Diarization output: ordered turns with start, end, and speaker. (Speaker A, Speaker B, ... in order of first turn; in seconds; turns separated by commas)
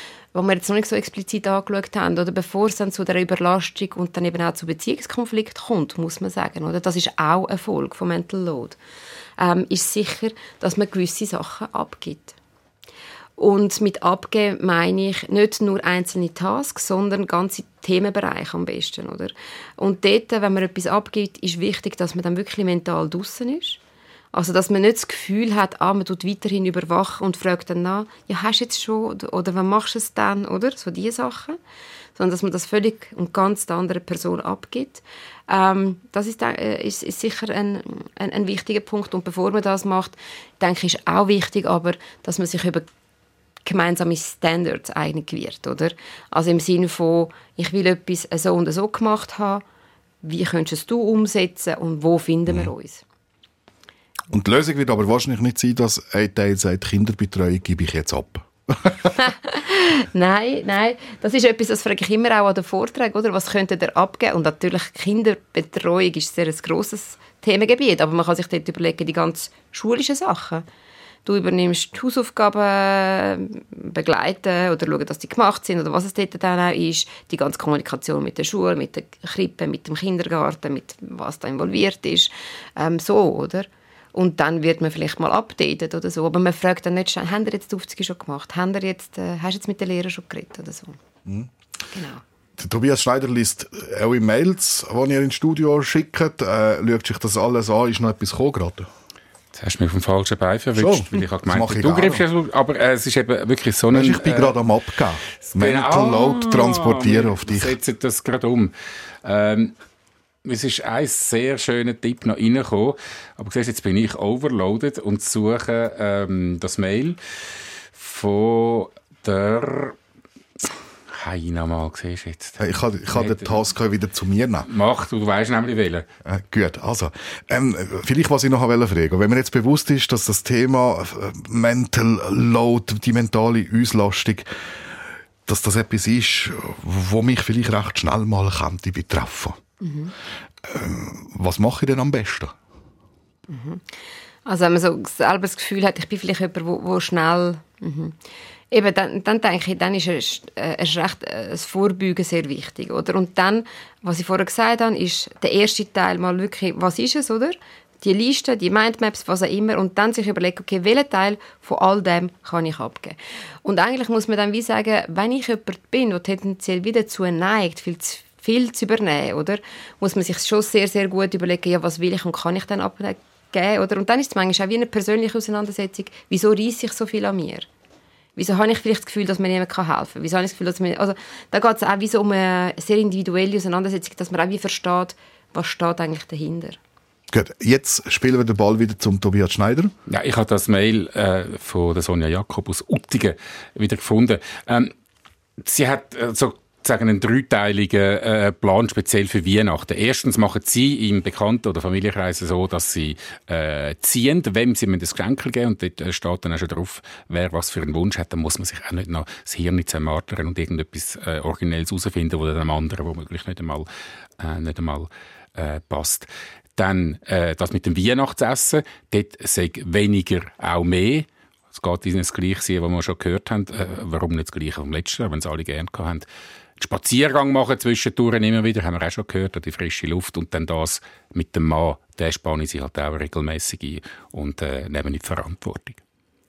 Speaker A: 0.3-8.8, Speaker A: 9.4-12.3, Speaker A: 13.4-23.8, Speaker A: 24.3-31.6, Speaker A: 32.1-42.9, Speaker A: 43.6-49.6, Speaker A: 50.2-53.0, Speaker B: 54.3-59.1, Speaker A: 59.2-70.6, Speaker A: 71.2-91.0, Speaker B: 91.2-91.5, Speaker A: 91.9-92.2, Speaker B: 92.6-98.9, Speaker C: 99.5-104.7, Speaker B: 100.7-102.2, Speaker B: 103.9-107.8, Speaker C: 105.5-108.7, Speaker C: 109.2-109.7, Speaker C: 110.4-117.2, Speaker C: 117.9-120.0, Speaker C: 121.1-122.6, Speaker B: 122.6-124.7, Speaker C: 123.1-123.6, Speaker C: 124.7-126.1, Speaker B: 126.2-134.5, Speaker B: 135.4-139.6, Speaker A: 139.8-140.1, Speaker B: 140.6-142.6, Speaker A: 143.5-143.8, Speaker A: 144.4-148.2, Speaker A: 148.7-177.7, Speaker A: 178.3-186.8, Speaker B: 187.3-189.9, Speaker C: 190.1-194.9, Speaker C: 195.6-213.9, Speaker C: 214.4-236.0